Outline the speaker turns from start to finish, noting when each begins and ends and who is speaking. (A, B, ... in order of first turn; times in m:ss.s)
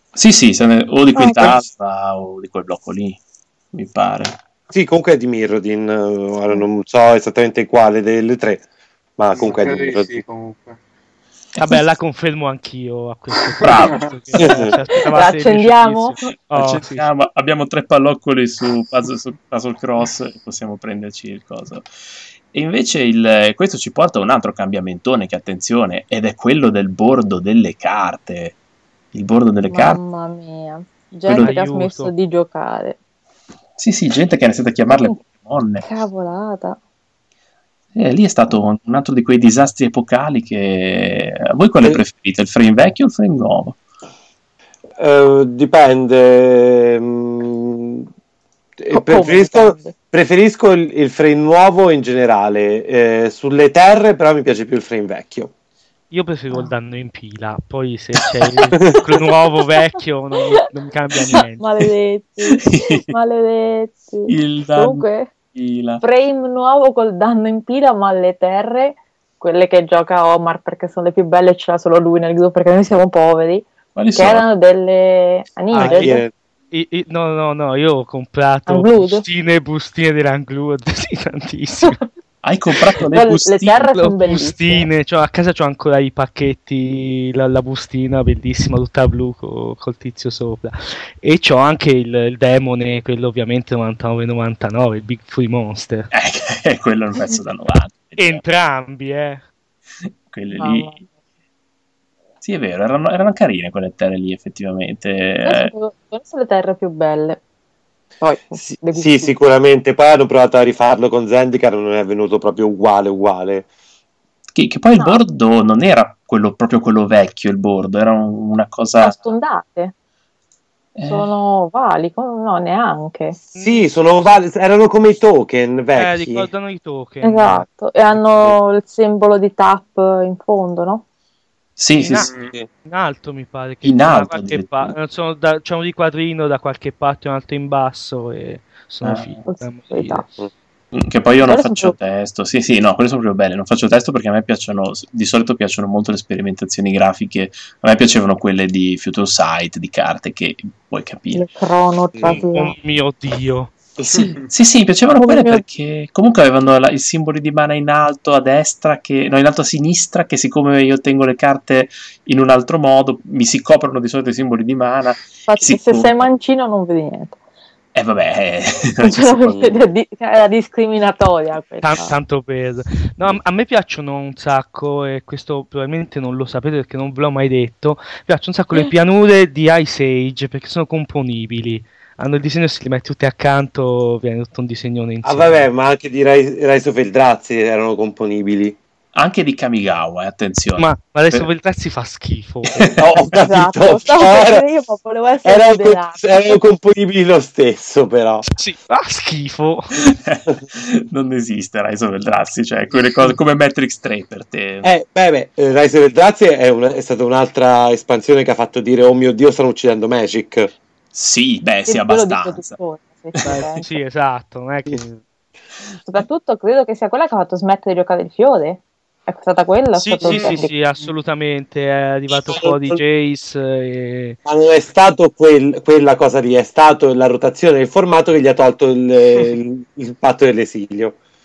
0:00.1-0:03.2 A
0:01.1-0:01.6 B
0:03.7-0:04.4 A
0:04.7-0:08.6 C
0:09.2-0:10.2 C
0:09.3-0:10.8 D
0:11.6-0:11.8 A
0:11.6-0:17.0 E
0:13.6-0:14.0 D
0:13.6-0:14.4 A
0:14.4-0:14.7 C
0:14.9-0:16.2 B
0:16.5-0:21.9 A
0:22.5-0:28.6 A
0:29.1-0:30.0 A
0:29.7-0:33.0 B
0:31.3-0:31.5 A
0:31.3-0:32.1 E
0:33.8-0:35.8 A
0:34.9-0:35.1 B
0:35.8-0:36.8 B
0:37.9-0:43.8 A
0:45.0-0:48.1 C
0:48.8-0:55.5 C
0:48.9-0:49.9 B
0:56.1-1:01.6 E
1:01.3-1:05.3 B
1:02.6-1:03.2 A
1:04.3-1:06.0 A
1:06.0-1:16.2 B
1:13.9-1:14.4 A
1:15.7-1:16.2 E
1:15.7-1:16.3 C
1:16.7-1:22.0 E
1:18.7-1:19.2 B
1:22.4-1:23.9 A
1:23.1-1:24.9 B
1:23.9-1:36.1 E
1:36.1-1:38.4 A
1:38.2-1:39.4 E
1:40.3-1:41.0 A
1:40.6-1:41.0 B
1:42.4-1:45.7 A
1:45.4-1:47.4 B
1:48.2-1:49.3 B
1:48.6-1:53.6 C
1:54.5-1:59.2 A
1:59.0-1:59.9 B
2:00.9-2:01.3 A
2:01.0-2:03.4 B
2:03.5-2:04.4 E
2:03.6-2:06.5 C
2:05.9-2:07.6 E
2:07.2-2:11.0 B
2:11.8-2:12.3 A
2:12.0-2:20.2 E
2:12.2-2:12.6 D
2:13.8-2:14.9 A
2:19.0-2:19.4 A
2:19.5-2:20.2 B
2:20.9-2:31.5 A
2:21.4-2:21.9 B
2:31.3-2:32.7 B
2:32.1-2:32.4 C
2:32.5-2:33.7 E
2:34.0-2:46.3 A
2:34.1-2:34.4 D
2:35.1-2:35.6 B
2:45.4-2:47.4 B
2:47.9-2:49.8 A
2:49.0-2:52.1 B
2:51.8-3:05.7 E
3:05.2-3:08.8 C
3:09.1-3:11.5 A
3:10.8-3:12.9 E
3:12.7-3:13.4 A
3:13.0-3:14.6 C
3:13.4-3:16.6 B
3:15.4-3:18.4 C
3:18.4-3:20.1 E
3:20.0-3:24.9 A
3:24.8-3:30.7 C
3:31.1-3:32.8 A
3:31.9-3:33.9 B
3:33.4-3:35.2 E
3:36.0-3:40.7 B
3:39.9-3:44.4 E
3:40.2-3:40.6 D
3:42.3-3:43.0 C
3:44.4-3:51.2 C